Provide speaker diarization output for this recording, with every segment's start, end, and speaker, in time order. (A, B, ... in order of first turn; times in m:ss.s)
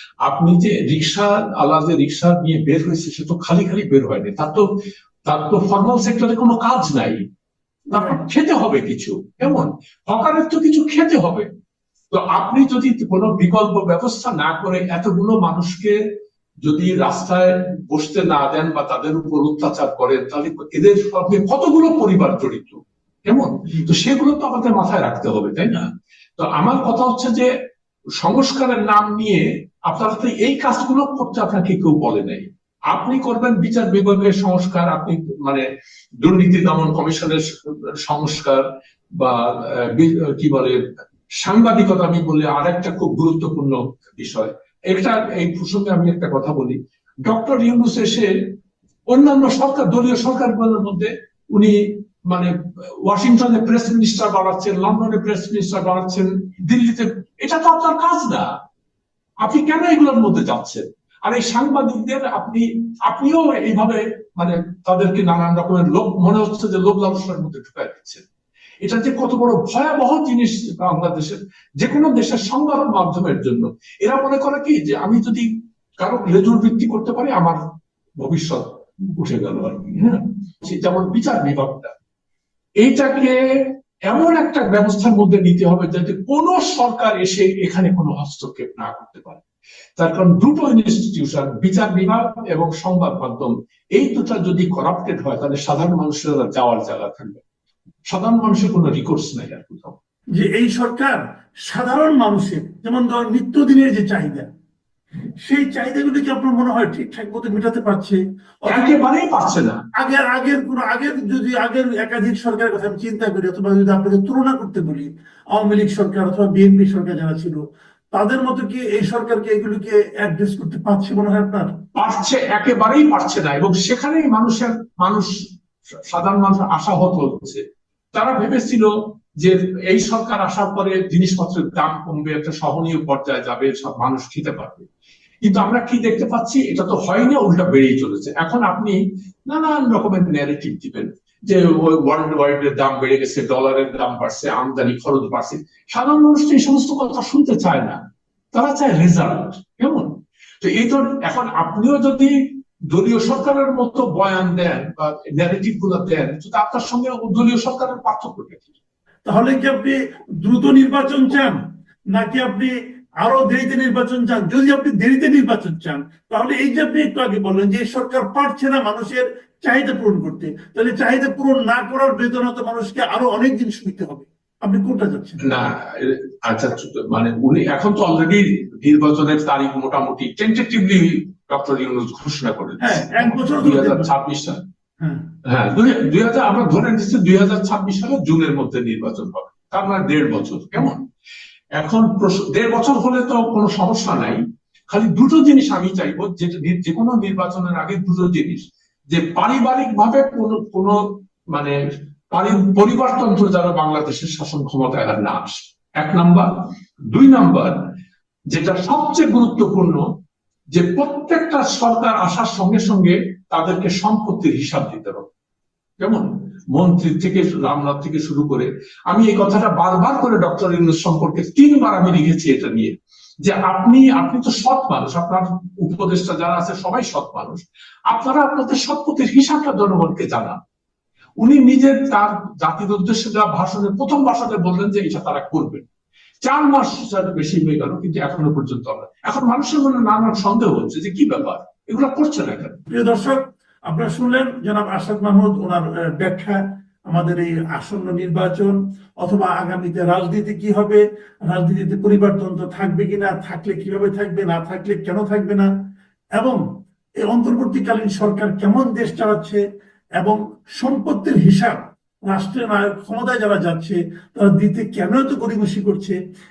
0:00.2-0:04.6 A
0:05.3-0:07.2 A
0:07.9-0:11.5 A
0:07.9-0:08.2 B
0:12.1-0:16.0 A
0:16.6-0:25.9 A
0:26.4-0:27.5 A
0:28.2-0:35.6 A
0:36.2-0:37.4 A
0:38.1-0:38.6 A
0:39.2-0:40.8 A
0:41.4-0:48.3 A
0:49.1-0:51.8 A
0:53.0-0:58.5 A
0:59.4-1:08.2 A
1:08.8-1:15.5 A
1:16.0-1:17.6 A
1:18.2-1:21.9 A
1:22.8-1:23.4 A
1:24.1-1:29.4 A
1:30.0-1:37.4 A
1:38.1-1:40.0 A
1:40.4-1:44.5 B
1:45.4-1:49.0 B
1:48.7-1:49.8 A
1:50.0-1:57.6 B
1:58.1-2:01.7 B
2:02.0-2:05.3 A
2:06.1-2:07.6 A
2:08.1-2:08.9 A
2:09.4-2:14.9 A
2:15.4-2:19.0 A
2:19.5-2:28.0 A
2:28.5-2:30.1 A
2:30.6-2:32.3 A
2:32.9-2:38.7 A
2:39.3-2:41.6 B
2:42.1-2:55.4 B
2:55.4-3:04.6 A
3:02.8-3:04.1 B
3:05.0-3:05.3 B
3:05.5-3:11.0 A
3:11.8-3:21.0 A
3:22.3-3:26.5 A
3:27.1-3:27.8 A
3:28.5-3:30.0 A
3:30.7-3:35.3 A
3:36.0-3:50.6 A
3:51.4-3:55.8 A
3:56.4-4:02.8 A
4:02.9-4:06.6 B
4:07.1-4:15.7 B
4:17.2-4:19.6 B
4:20.2-4:26.2 B